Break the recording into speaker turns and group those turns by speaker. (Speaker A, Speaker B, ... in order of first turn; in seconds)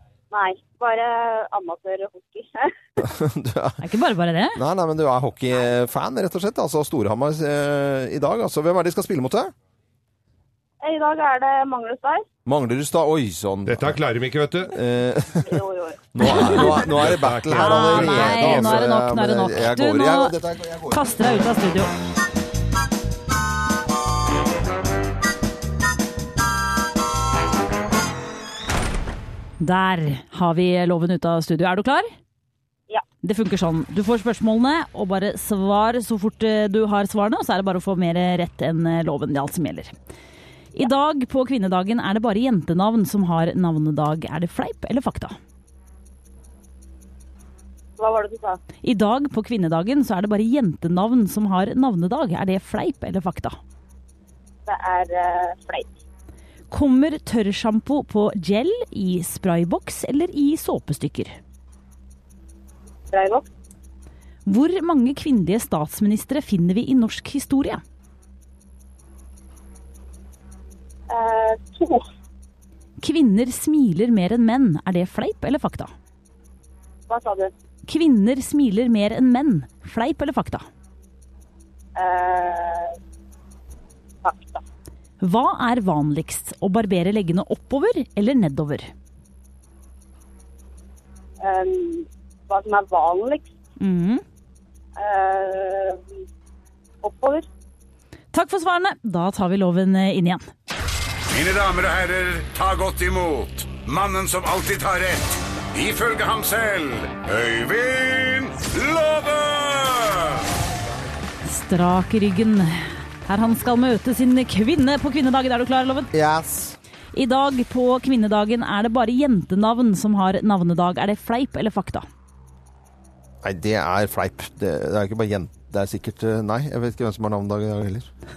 Speaker A: 0.3-3.0, 10.8-12.2, 15.4-16.1, 48.0-48.6, 54.7-55.9, 63.1-63.5, 71.1-72.0, 77.1-77.5, 82.0-82.9, 84.2-84.6, 91.4-93.5, 95.0-96.0, 97.0-97.5
Speaker B: 3.0-3.8, 4.5-9.5, 12.4-14.0, 14.7-15.6, 16.1-21.1, 116.1-116.8, 123.4-128.1
Speaker C: 3.8-4.6, 16.2-16.8, 17.5-20.3, 20.9-21.9, 29.6-32.1, 33.2-39.9, 40.7-45.4, 48.8-53.6, 56.7-61.4, 64.5-67.8, 73.0-75.9, 77.8-80.6, 85.2-88.9, 93.8-94.2, 98.3-100.5, 111.4-116.1, 117.1-122.0
Speaker D: 13.7-14.7, 16.6-18.8
Speaker E: 101.3-110.1